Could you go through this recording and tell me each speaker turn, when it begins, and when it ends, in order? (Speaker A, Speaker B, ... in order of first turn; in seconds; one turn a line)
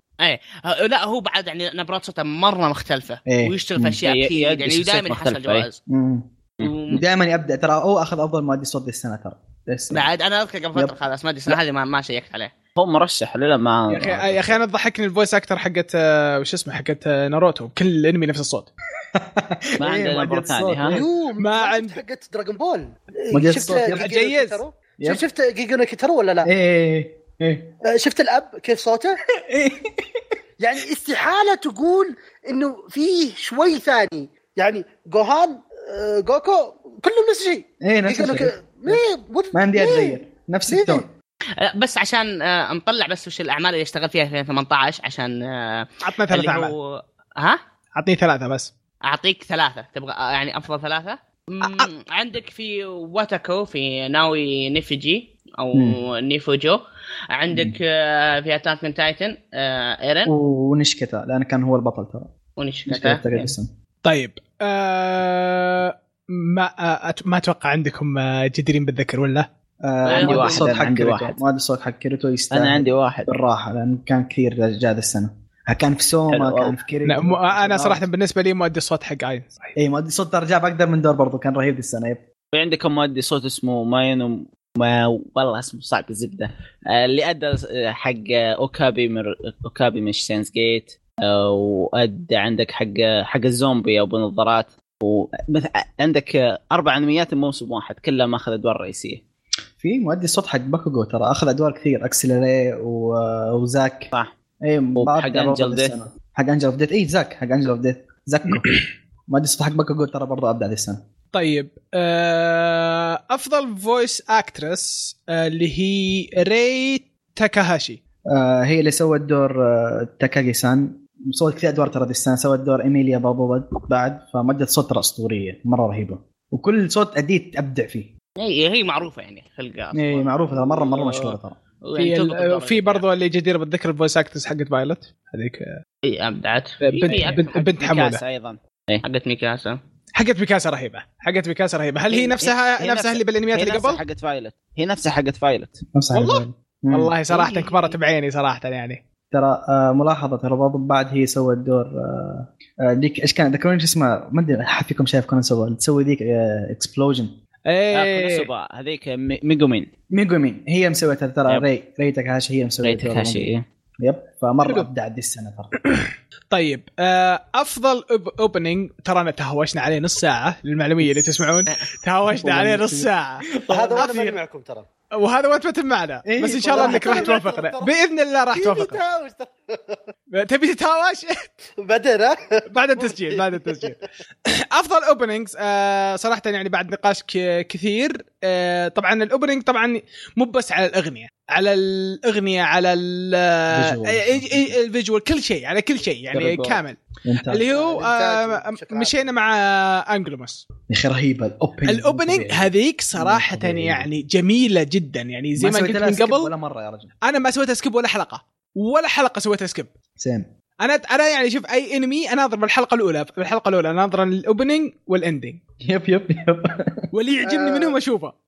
Speaker A: 0.2-5.8
Speaker B: 3.3-4.0
Speaker C: 4.0-5.7
Speaker B: 5.9-6.3
Speaker A: 6.6-7.0
Speaker B: 6.9-10.0
Speaker A: 9.9-12.5
Speaker C: 12.8-14.6
Speaker D: 13.9-18.7
Speaker B: 19.1-21.0
Speaker C: 19.8-21.0
Speaker E: 20.9-26.5
Speaker D: 21.4-22.0
Speaker B: 23.3-24.1
Speaker D: 23.9-24.6
Speaker B: 26.4-27.7
Speaker E: 27.9-29.2
Speaker B: 29.4-30.2
Speaker E: 30.6-40.2
Speaker B: 37.8-39.0
Speaker B: 39.5-41.1
Speaker E: 40.7-41.0
Speaker A: 41.6-47.6
Speaker D: 46.0-46.7
Speaker D: 47.9-48.7
Speaker A: 49.0-60.3
Speaker D: 51.6-51.9
Speaker B: 55.7-56.0
Speaker B: 57.5-57.8
Speaker B: 60.2-62.3
Speaker A: 62.6-63.2
Speaker B: 62.9-63.7
Speaker D: 64.0-69.5
Speaker B: 69.8-78.0
Speaker A: 70.0-70.8
Speaker C: 70.1-71.4
Speaker C: 72.5-73.3
Speaker C: 76.3-76.8
Speaker D: 77.0-79.7
Speaker B: 79.8-82.2
Speaker C: 82.5-99.2
Speaker B: 99.8-104.1
Speaker B: 104.6-108.7
Speaker C: 105.0-105.9
Speaker B: 109.3-111.0
Speaker D: 111.3-118.0
Speaker B: 118.3-128.1
Speaker A: 128.4-133.0
Speaker B: 129.9-131.6
Speaker D: 131.9-135.8
Speaker A: 136.0-137.5
Speaker D: 136.8-138.2
Speaker C: 137.0-139.0
Speaker A: 139.0-139.8
Speaker D: 140.1-144.0
Speaker C: 142.1-145.8
Speaker B: 145.9-147.1
Speaker D: 146.1-149.0
Speaker A: 147.3-147.9
Speaker B: 149.3-157.3
Speaker D: 157.7-158.5
Speaker C: 157.9-159.9
Speaker B: 160.1-165.7
Speaker C: 162.8-163.7
Speaker D: 165.9-174.4
Speaker B: 171.0-171.3
Speaker B: 172.3-174.1
Speaker E: 173.7-174.9
Speaker D: 175.1-179.0
Speaker B: 176.2-177.4
Speaker E: 176.7-177.9
Speaker E: 178.5-180.0
Speaker D: 180.3-181.4
Speaker E: 181.8-183.9
Speaker D: 182.7-200.6
Speaker B: 193.7-194.8
Speaker C: 196.3-196.8
Speaker B: 197.2-197.7
Speaker E: 197.7-199.3
Speaker B: 200.9-204.1
Speaker D: 201.9-206.5
Speaker B: 205.6-207.1
Speaker D: 207.2-209.9
Speaker B: 210.2-210.5
Speaker D: 210.8-215.6
Speaker B: 215.8-217.0
Speaker D: 217.1-218.3
Speaker E: 217.4-218.0